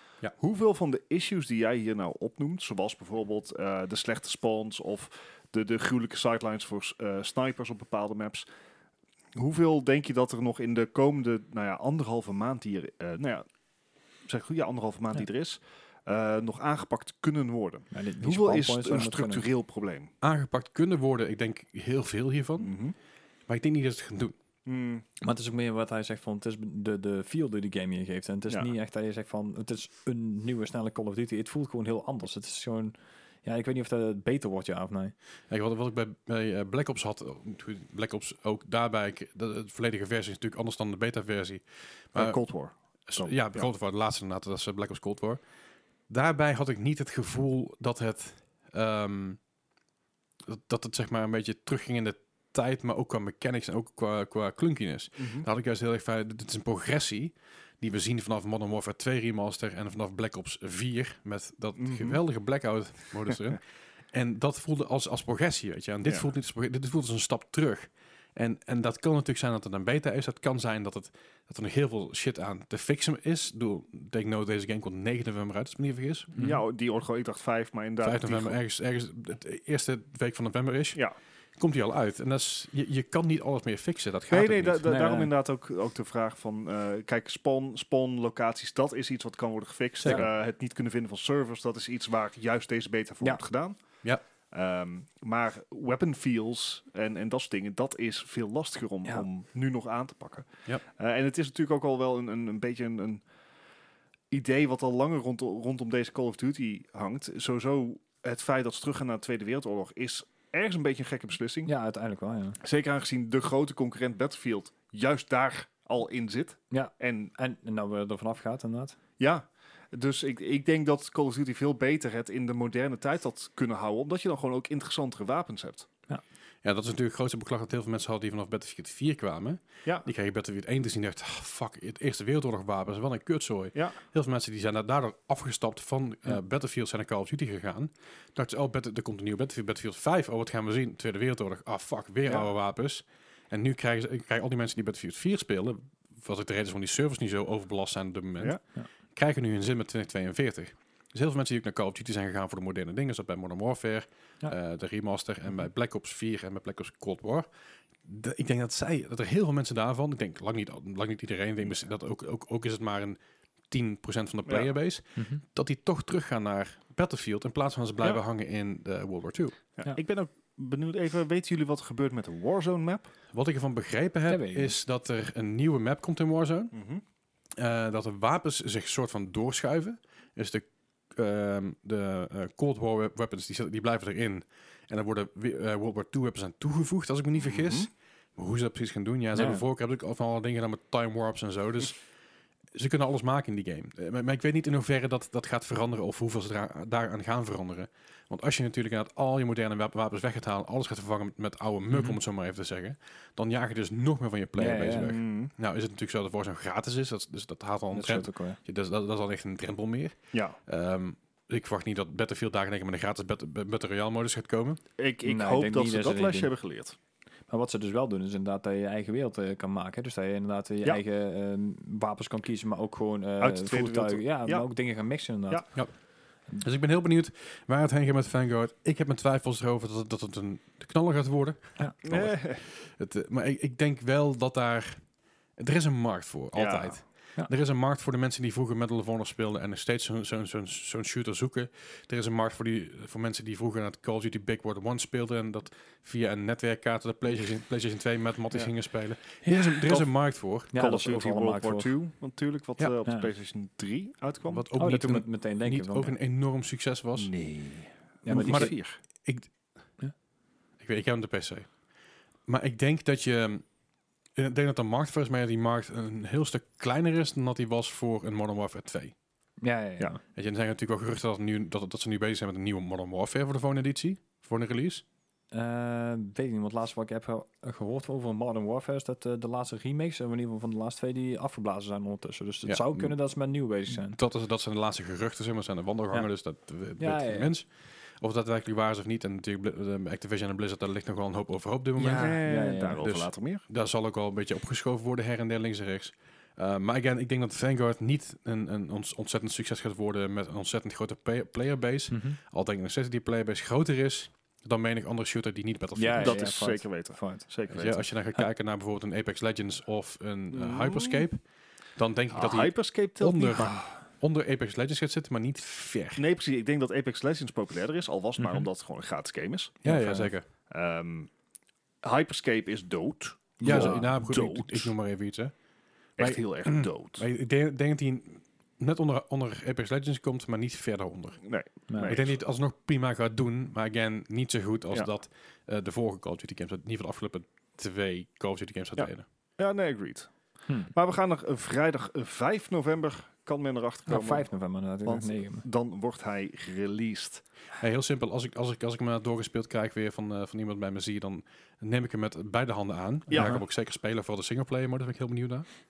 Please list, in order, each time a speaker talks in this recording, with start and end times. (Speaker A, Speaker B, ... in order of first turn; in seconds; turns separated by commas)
Speaker A: 0.4-8.5, Speaker A: 9.3-13.4, Speaker A: 14.2-20.1, Speaker B: 17.9-19.4, Speaker C: 20.2-22.7, Speaker A: 22.6-22.9, Speaker C: 23.5-24.4, Speaker A: 24.6-25.0, Speaker B: 25.2-35.1, Speaker C: 35.5-42.4, Speaker A: 42.1-43.6, Speaker C: 43.0-45.4, Speaker C: 46.1-49.4, Speaker C: 50.5-76.3, Speaker A: 55.2-55.5, Speaker A: 61.8-62.2, Speaker B: 76.3-76.6, Speaker A: 76.4-78.6, Speaker C: 78.0-81.0, Speaker C: 81.6-84.9, Speaker A: 84.3-93.8, Speaker B: 84.8-85.3, Speaker A: 94.5-103.2, Speaker A: 104.3-111.7, Speaker B: 111.7-112.6, Speaker A: 112.6-117.3, Speaker B: 116.7-119.0, Speaker A: 119.2-125.9, Speaker C: 126.6-148.6, Speaker C: 149.1-157.5, Speaker C: 158.0-163.2, Speaker C: 163.7-169.6, Speaker A: 164.4-164.7, Speaker B: 165.2-165.4, Speaker A: 169.8-173.1, Speaker C: 173.3-176.7, Speaker B: 174.3-174.7, Speaker A: 176.7-177.0, Speaker C: 177.6-192.0, Speaker A: 187.4-187.9, Speaker B: 189.3-189.6, Speaker C: 192.7-214.8, Speaker B: 201.9-202.2, Speaker B: 204.6-205.1, Speaker A: 205.0-205.5, Speaker B: 207.9-208.6, Speaker A: 210.3-210.6, Speaker A: 215.0-216.9, Speaker B: 215.2-216.5, Speaker B: 217.5-225.8, Speaker A: 223.4-224.7, Speaker C: 226.5-235.0, Speaker A: 232.0-232.6, Speaker C: 235.6-250.7, Speaker A: 236.5-237.0, Speaker B: 250.7-251.9, Speaker A: 250.7-254.6, Speaker C: 254.5-257.3, Speaker B: 254.8-256.1, Speaker A: 257.2-259.0, Speaker B: 258.2-258.8, Speaker C: 258.3-259.5, Speaker C: 260.8-261.7, Speaker C: 262.5-263.6, Speaker C: 264.4-269.1, Speaker B: 269.6-270.2, Speaker C: 270.3-275.0, Speaker B: 275.5-284.2, Speaker C: 282.6-283.1, Speaker C: 283.9-287.7, Speaker B: 287.0-287.5, Speaker C: 288.2-292.4, Speaker B: 292.0-293.0, Speaker A: 292.1-293.6, Speaker C: 293.0-306.4, Speaker B: 302.1-302.4, Speaker B: 305.9-307.4, Speaker A: 306.2-308.0, Speaker C: 307.7-311.4, Speaker A: 310.5-311.2, Speaker C: 311.9-316.2, Speaker A: 312.3-313.7, Speaker B: 313.6-313.9, Speaker A: 316.2-319.8, Speaker C: 319.8-320.5, Speaker B: 319.8-320.3, Speaker A: 320.7-321.3, Speaker A: 322.0-324.9, Speaker B: 323.6-324.1, Speaker C: 323.6-325.5, Speaker A: 326.2-327.2, Speaker C: 326.2-331.4, Speaker A: 331.4-332.3, Speaker B: 331.9-332.1, Speaker C: 332.0-339.3, Speaker A: 339.0-340.3, Speaker A: 340.9-344.5, Speaker B: 344.1-345.6, Speaker A: 345.0-347.4, Speaker C: 347.8-355.7, Speaker A: 353.3-353.6, Speaker B: 353.3-353.6